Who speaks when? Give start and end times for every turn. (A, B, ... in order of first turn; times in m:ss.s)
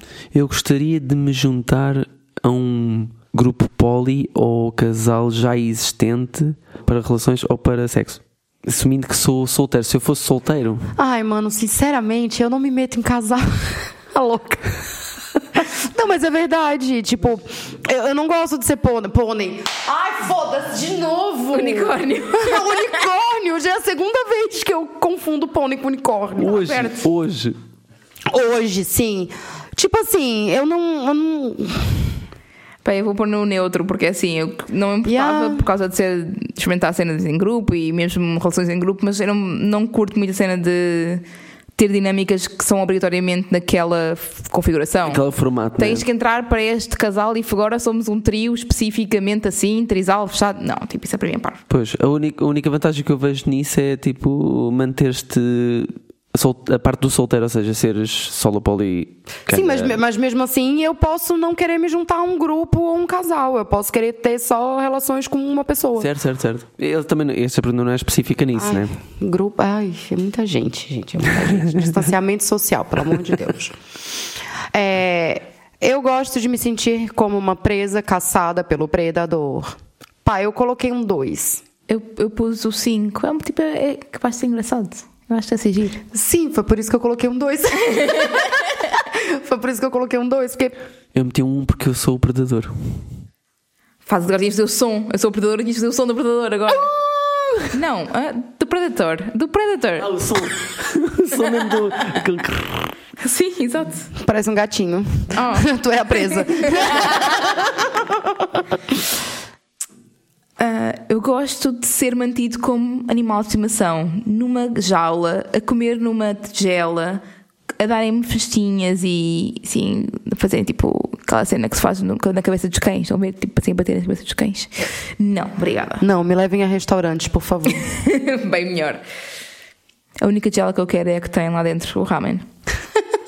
0:00.3-0:10.9 A
0:11.0-0:14.7 B
0:15.5-0:26.7 B
0:21.5-0:23.0 C
0:26.4-0:27.6 A
0:26.4-0:27.0 C
0:28.3-0:32.2 B
0:32.8-0:41.2 C
0:35.0-0:35.6 B
0:41.8-0:45.2 C
0:45.1-0:46.0 A
0:45.8-0:51.6 C
0:51.7-1:00.0 A
0:59.5-1:06.1 B
1:06.0-1:08.9 A
1:08.6-1:13.8 B
1:14.7-1:21.6 B
1:21.9-1:26.0 C
1:26.1-1:30.8 B
1:27.9-1:28.5 C
1:31.1-1:32.7 A
1:34.0-1:36.9 C
1:37.7-1:40.1 C
1:40.0-1:42.9 A
1:43.2-1:44.1 C
1:44.1-1:48.8 B
1:45.3-1:47.3 C
1:50.6-1:57.2 C
1:57.8-2:06.0 C
2:06.0-2:07.8 B
2:07.7-2:09.0 C
2:10.2-2:12.4 C